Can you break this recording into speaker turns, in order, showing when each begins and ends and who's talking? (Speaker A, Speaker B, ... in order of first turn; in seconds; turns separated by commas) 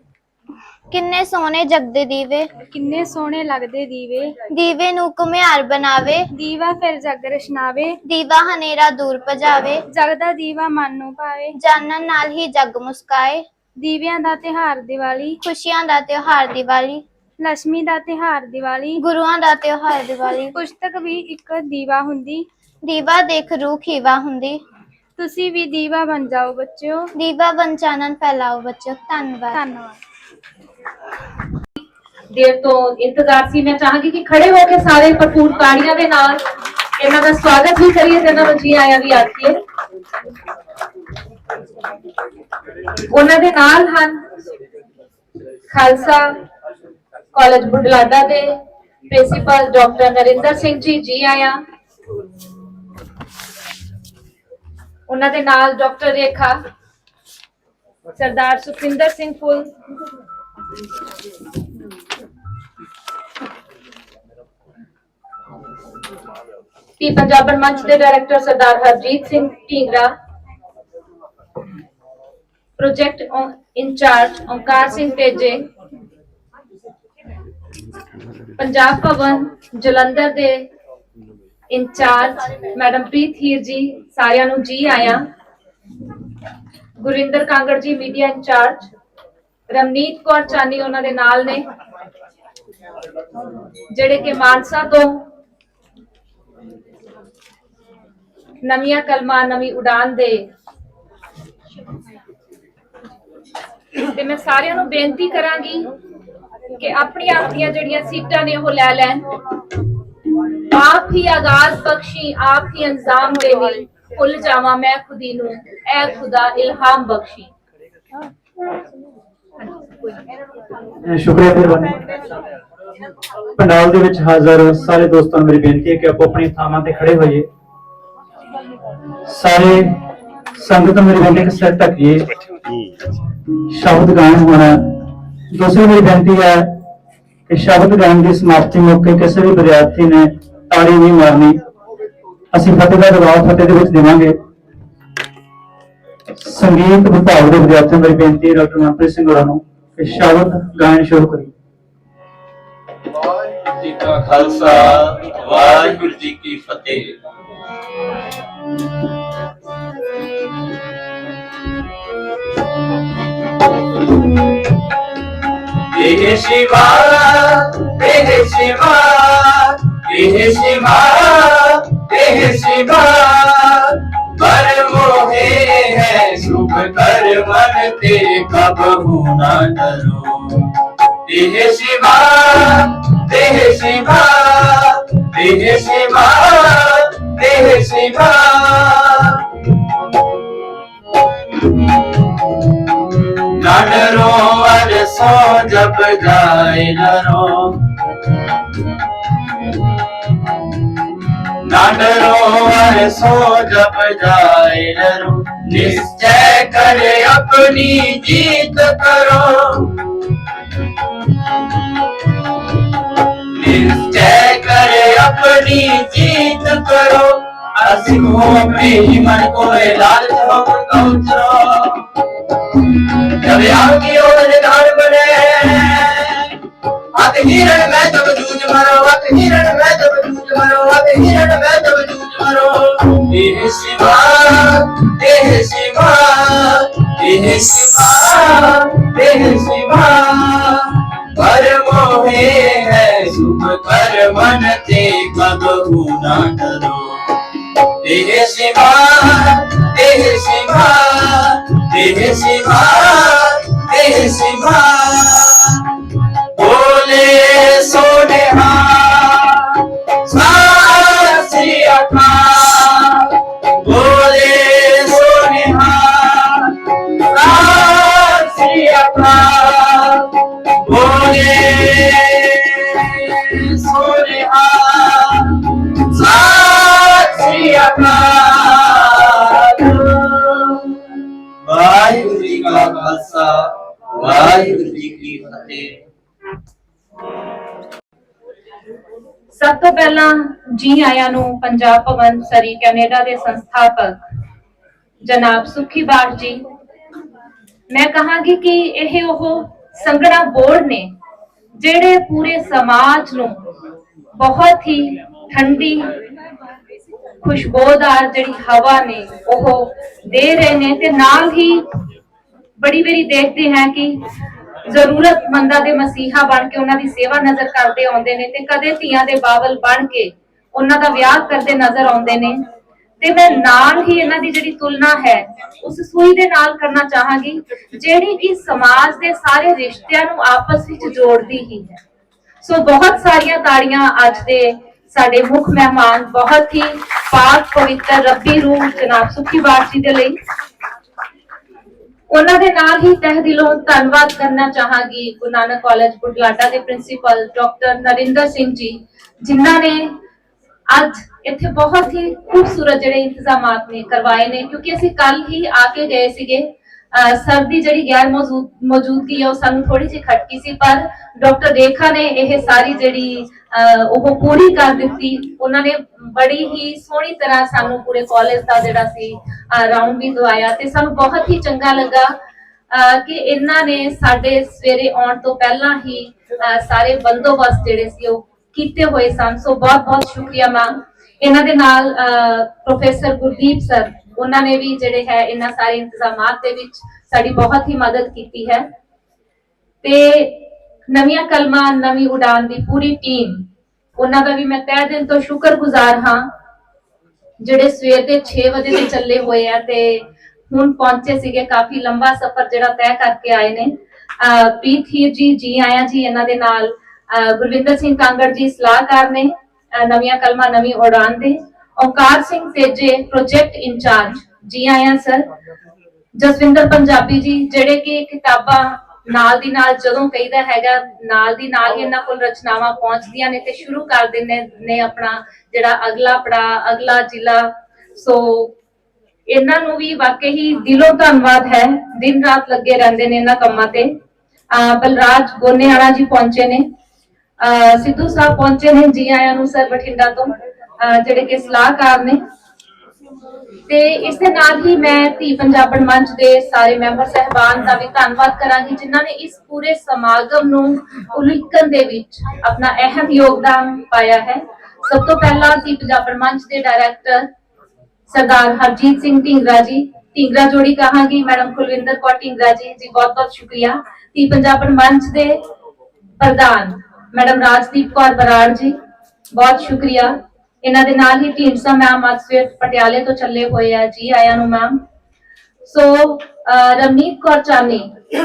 Speaker A: 0.9-2.5, Speaker B: 2.7-4.4, Speaker A: 4.5-6.3, Speaker B: 6.3-8.0, Speaker A: 8.1-9.8, Speaker B: 9.9-11.5, Speaker A: 11.6-13.4, Speaker B: 13.8-15.4, Speaker A: 15.4-17.0, Speaker B: 17.4-19.0, Speaker A: 19.0-20.5, Speaker B: 20.4-22.5, Speaker A: 22.8-24.6, Speaker B: 25.2-27.1, Speaker A: 27.2-29.6, Speaker B: 29.5-30.0, Speaker C: 32.3-36.4, Speaker C: 37.0-39.6, Speaker C: 43.1-44.2, Speaker C: 45.7-46.3, Speaker C: 47.3-48.6, Speaker C: 49.1-51.6, Speaker C: 55.1-56.6, Speaker C: 58.2-59.7, Speaker C: 67.0-70.1, Speaker C: 72.8-75.6, Speaker C: 78.6-80.7, Speaker C: 81.7-85.2, Speaker C: 87.0-88.9, Speaker C: 89.7-91.6, Speaker C: 93.9-95.2, Speaker C: 98.6-100.5, Speaker C: 104.0-105.9, Speaker C: 106.8-109.2, Speaker C: 110.7-117.5, Speaker D: 121.0-122.1, Speaker D: 123.6-127.5, Speaker D: 129.2-129.9, Speaker D: 130.6-132.3, Speaker D: 133.7-134.8, Speaker D: 135.5-136.7, Speaker D: 137.5-141.6, Speaker D: 142.5-144.4, Speaker D: 146.4-151.5, Speaker E: 153.8-157.1, Speaker E: 165.9-180.7, Speaker E: 181.3-189.4, Speaker E: 193.5-197.8, Speaker E: 201.6-209.9, Speaker E: 213.5-222.0, Speaker E: 223.1-226.6, Speaker E: 227.2-247.2, Speaker E: 248.0-255.9, Speaker E: 256.6-280.9, Speaker E: 281.6-285.9, Speaker C: 289.6-294.2, Speaker C: 295.2-296.6, Speaker C: 297.9-301.1, Speaker C: 301.8-303.6, Speaker C: 304.4-306.1, Speaker C: 307.4-311.8, Speaker C: 312.8-314.2, Speaker C: 314.9-322.6, Speaker C: 323.2-332.0, Speaker C: 332.6-340.4, Speaker C: 342.3-350.1, Speaker C: 350.9-372.3, Speaker C: 372.9-388.9, Speaker C: 390.0-393.6, Speaker C: 394.2-396.4, Speaker C: 397.6-415.5, Speaker C: 416.4-428.7, Speaker C: 429.5-434.1, Speaker C: 434.7-436.8, Speaker C: 437.6-442.4, Speaker C: 443.9-457.5, Speaker C: 458.3-465.6, Speaker C: 466.4-468.9, Speaker C: 469.5-474.9, Speaker C: 475.8-478.1